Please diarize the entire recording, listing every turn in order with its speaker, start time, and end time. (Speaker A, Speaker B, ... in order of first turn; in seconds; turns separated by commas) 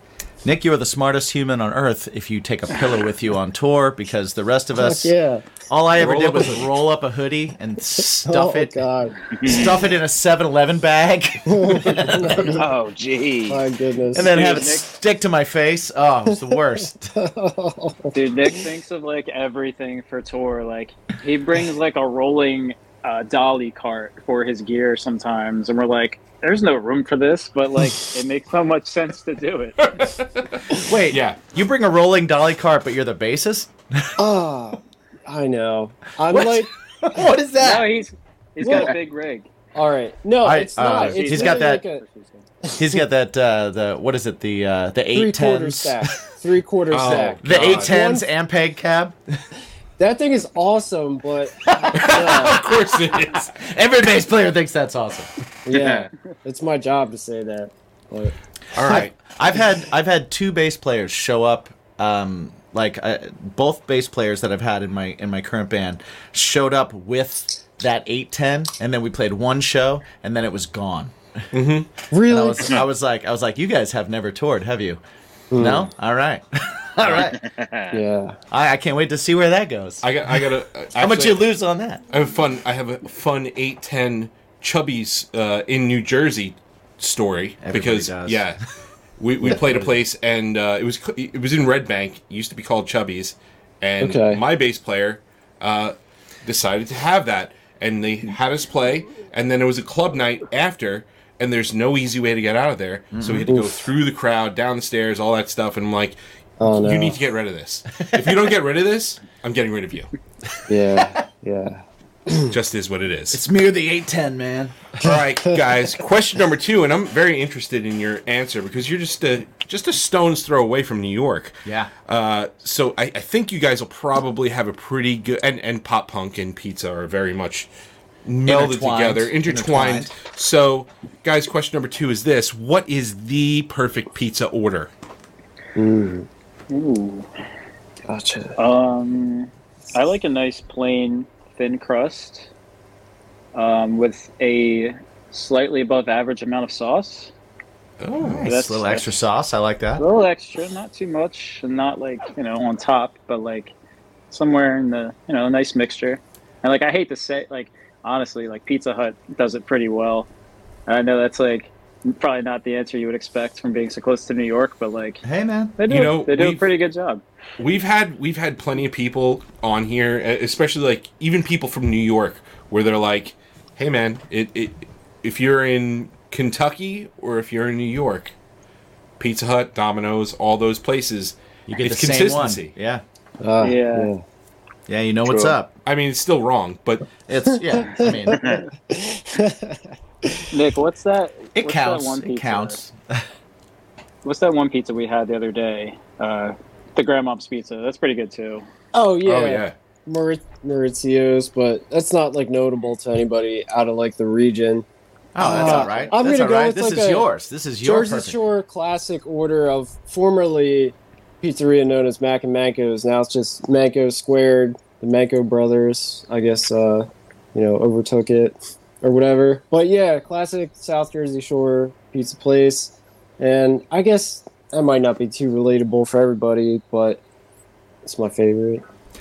Speaker A: 0.4-5.1, Speaker B: 4.8-5.5, Speaker A: 5.7-8.8, Speaker C: 6.0-6.7, Speaker B: 8.2-9.3, Speaker D: 9.4-9.7, Speaker A: 9.4-12.7, Speaker B: 11.5-12.7, Speaker D: 12.6-13.6, Speaker B: 13.5-14.4, Speaker A: 14.1-17.1, Speaker E: 14.3-14.9, Speaker B: 17.1-18.6, Speaker E: 18.1-30.1, Speaker C: 29.9-31.4, Speaker A: 30.8-34.1, Speaker B: 34.2-36.7, Speaker A: 36.3-37.9, Speaker E: 37.6-39.5, Speaker B: 38.6-38.9, Speaker B: 39.7-42.0, Speaker A: 40.4-41.8, Speaker E: 40.8-42.5, Speaker A: 42.8-46.1, Speaker B: 45.1-48.3, Speaker C: 46.9-47.9, Speaker A: 47.4-49.2, Speaker B: 50.0-52.7, Speaker A: 51.7-55.3, Speaker C: 51.9-53.5, Speaker B: 55.7-58.4, Speaker D: 55.7-56.1, Speaker C: 58.7-59.3, Speaker A: 58.9-71.4, Speaker C: 71.5-71.9, Speaker B: 72.1-72.8, Speaker A: 72.3-75.0, Speaker B: 75.5-75.9, Speaker A: 75.6-77.4, Speaker D: 77.0-78.0, Speaker B: 77.9-78.4, Speaker A: 78.5-82.0, Speaker C: 80.0-81.4, Speaker C: 82.1-88.6, Speaker A: 87.6-88.5, Speaker C: 89.2-110.1, Speaker B: 94.0-94.4, Speaker A: 103.1-103.5, Speaker B: 106.6-107.2, Speaker A: 108.0-108.4, Speaker B: 110.7-112.5, Speaker C: 112.5-113.4, Speaker A: 113.3-115.0, Speaker C: 115.0-127.7, Speaker A: 121.7-121.9, Speaker C: 128.2-134.9, Speaker A: 128.5-130.1, Speaker B: 135.8-136.3, Speaker E: 136.7-137.3, Speaker B: 138.1-138.6, Speaker E: 138.6-142.5, Speaker E: 143.6-147.3, Speaker C: 148.0-148.5, Speaker A: 148.2-150.0, Speaker E: 148.4-149.1, Speaker E: 150.0-153.7, Speaker E: 154.3-160.3, Speaker E: 160.9-165.2, Speaker A: 165.2-165.8, Speaker E: 165.8-167.2, Speaker C: 165.9-166.7, Speaker C: 167.6-178.3, Speaker C: 179.2-182.7, Speaker A: 181.7-183.0, Speaker B: 183.4-184.2, Speaker E: 183.6-184.1, Speaker A: 184.9-185.8, Speaker D: 185.2-185.6, Speaker C: 185.8-187.1, Speaker A: 187.3-188.5, Speaker B: 187.9-190.5, Speaker D: 188.3-188.7, Speaker E: 190.5-192.8, Speaker A: 191.6-193.3, Speaker E: 194.2-198.7, Speaker B: 198.9-204.9, Speaker C: 199.2-199.8, Speaker A: 205.3-208.4, Speaker B: 205.4-207.3, Speaker E: 205.4-206.2, Speaker B: 207.8-227.2, Speaker B: 228.1-228.8